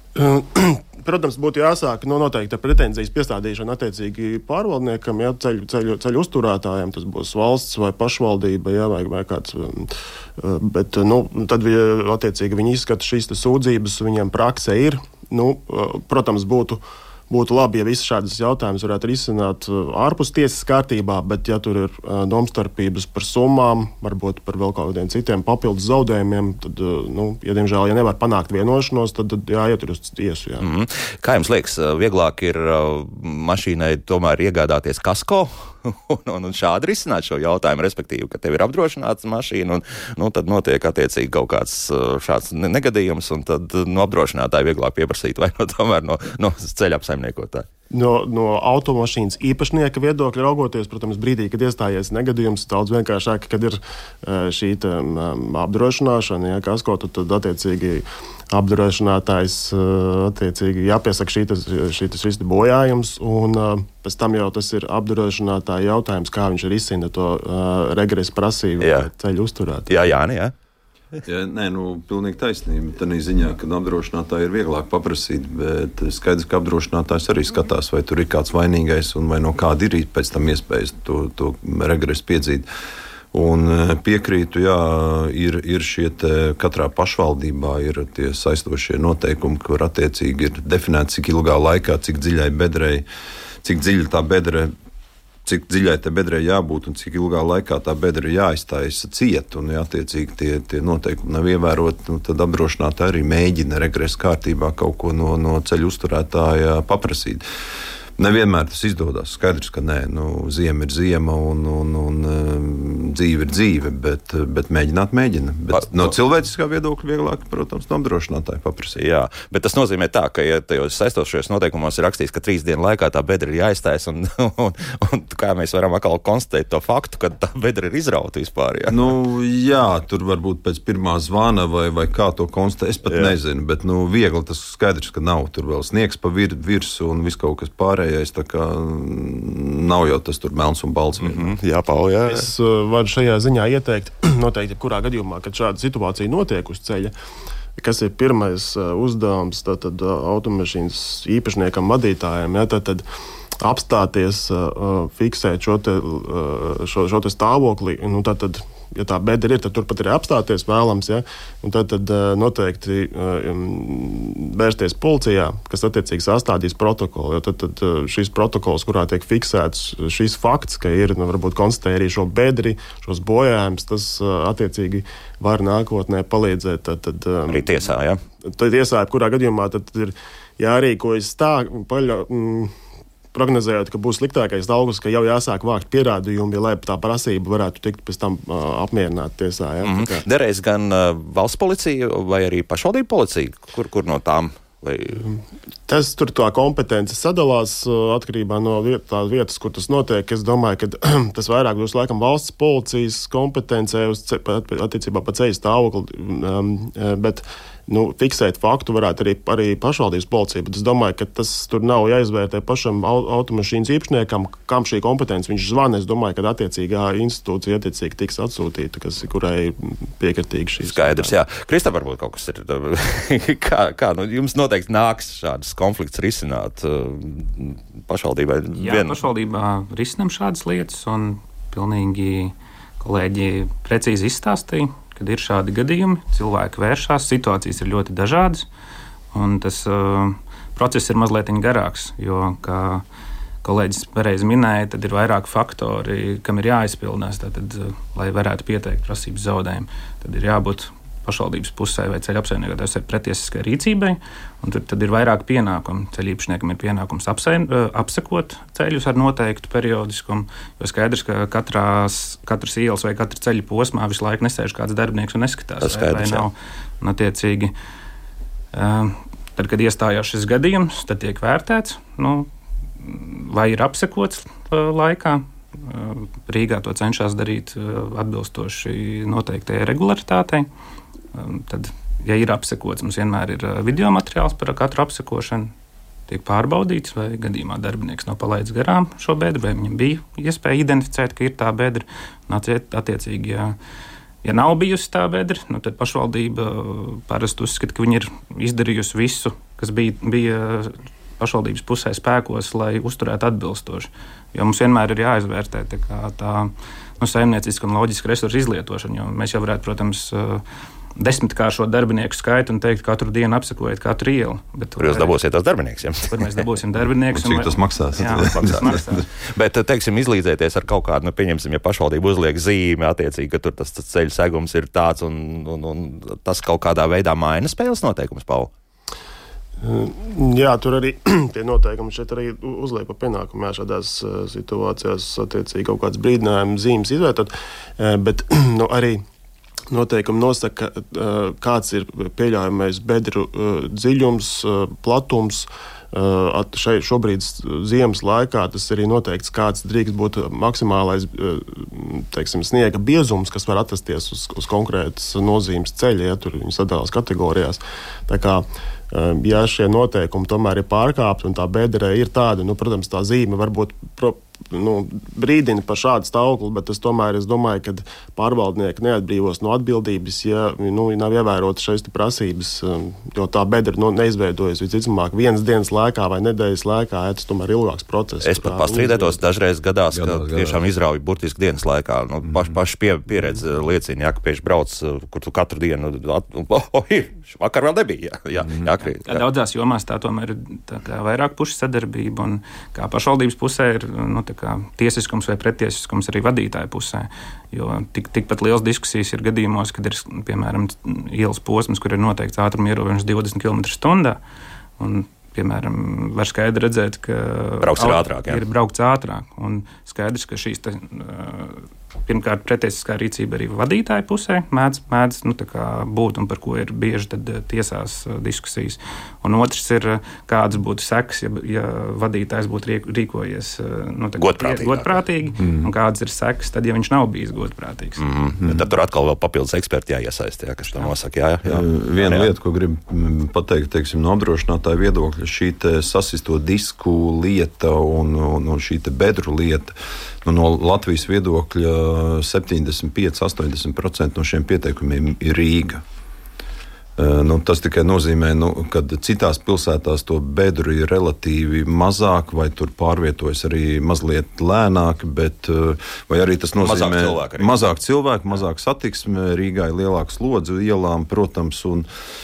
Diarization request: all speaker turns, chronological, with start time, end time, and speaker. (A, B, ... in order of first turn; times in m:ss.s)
0:00.1-0:30.7 A
0:30.6-0:47.7 B
0:47.9-1:09.9 A
1:08.8-1:09.1 B
1:09.9-1:10.5 B
1:11.2-1:22.7 C
1:23.3-1:33.0 C
1:33.6-1:34.7 C
1:35.4-1:47.4 C
1:48.2-1:59.0 C
1:55.7-1:56.1 B
1:59.0-2:09.1 B
2:08.9-2:21.6 C
2:13.1-2:13.3 B
2:21.2-2:22.5 B
2:22.3-2:27.1 A
2:27.8-2:33.0 A
2:33.6-2:57.8 A
2:57.5-2:58.2 B
2:58.4-3:02.7 A
3:03.3-3:10.2 A
3:09.8-3:15.3 B
3:15.9-3:41.3 A
3:40.8-3:49.2 B
3:48.8-3:58.6 D
3:59.3-4:03.0 D
4:03.6-4:27.7 D
4:25.8-4:26.4 B
4:28.7-4:32.5 D
4:33.0-4:40.7 D
4:41.3-4:45.7 D
4:46.3-4:53.8 D
4:54.4-5:10.6 D
5:11.2-5:15.3 D
5:15.0-5:16.6 B
5:16.3-5:19.2 D
5:17.3-5:19.2 C
5:18.3-5:28.7 B
5:29.8-5:39.2 A
5:39.9-6:19.4 A
6:18.4-6:29.4 B
6:20.1-6:20.8 C
6:22.4-6:22.8 C
6:28.6-6:28.9 C
6:29.1-6:44.4 D
6:45.0-7:08.2 D
6:47.8-6:48.6 B
7:04.4-7:05.2 B
7:05.6-7:05.9 C
7:08.2-7:12.5 B
7:11.6-7:26.0 C
7:27.2-7:42.0 C
7:36.8-7:37.7 B